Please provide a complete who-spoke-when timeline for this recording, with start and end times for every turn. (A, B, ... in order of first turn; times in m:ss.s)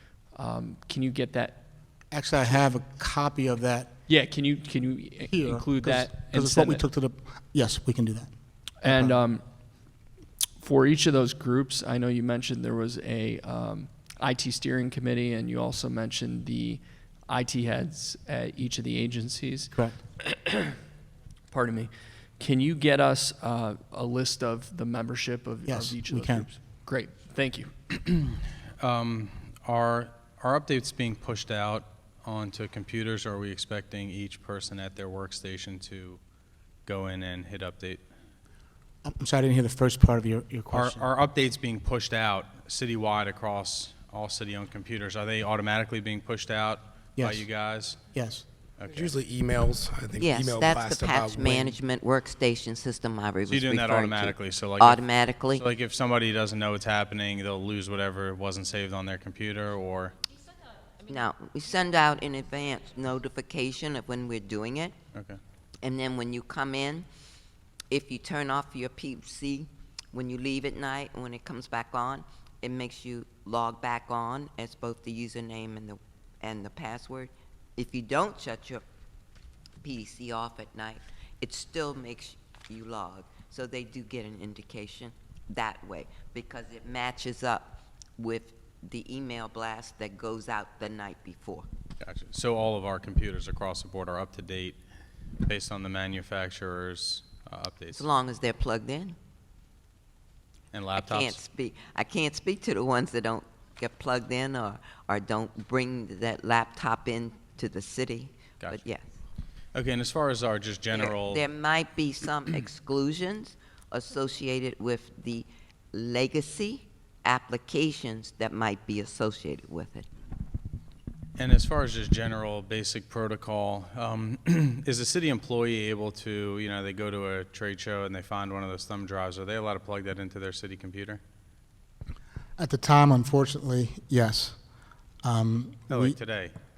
0:00.4-0:01.6 A
0:02.1-0:03.9 B
0:04.1-0:06.8 A
0:05.3-0:08.3 B
0:08.8-0:09.4 A
0:08.8-0:09.2 B
0:10.6-0:20.8 A
0:21.5-0:28.0 A
0:25.7-0:26.5 B
0:28.8-0:36.2 C
0:36.9-0:38.0 C
0:39.0-0:41.0 B
0:40.7-0:48.0 C
0:47.2-0:47.5 B
0:48.1-0:48.4 B
0:48.8-0:49.1 C
0:48.9-0:51.8 D
0:50.2-0:55.6 E
0:53.5-1:00.2 C
1:01.0-1:04.9 E
1:05.1-1:05.4 C
1:05.8-1:07.1 E
1:07.9-1:18.8 E
1:19.8-1:31.7 E
1:32.0-1:34.8 C
1:35.4-1:38.1 C
1:37.9-1:39.2 E
1:40.7-1:41.4 C
1:41.0-1:49.1 E
1:49.8-1:51.4 C
1:50.9-2:00.1 E
2:01.4-2:11.2 C
2:12.6-2:14.6 B
2:15.2-2:16.2 B
2:15.9-2:16.5 C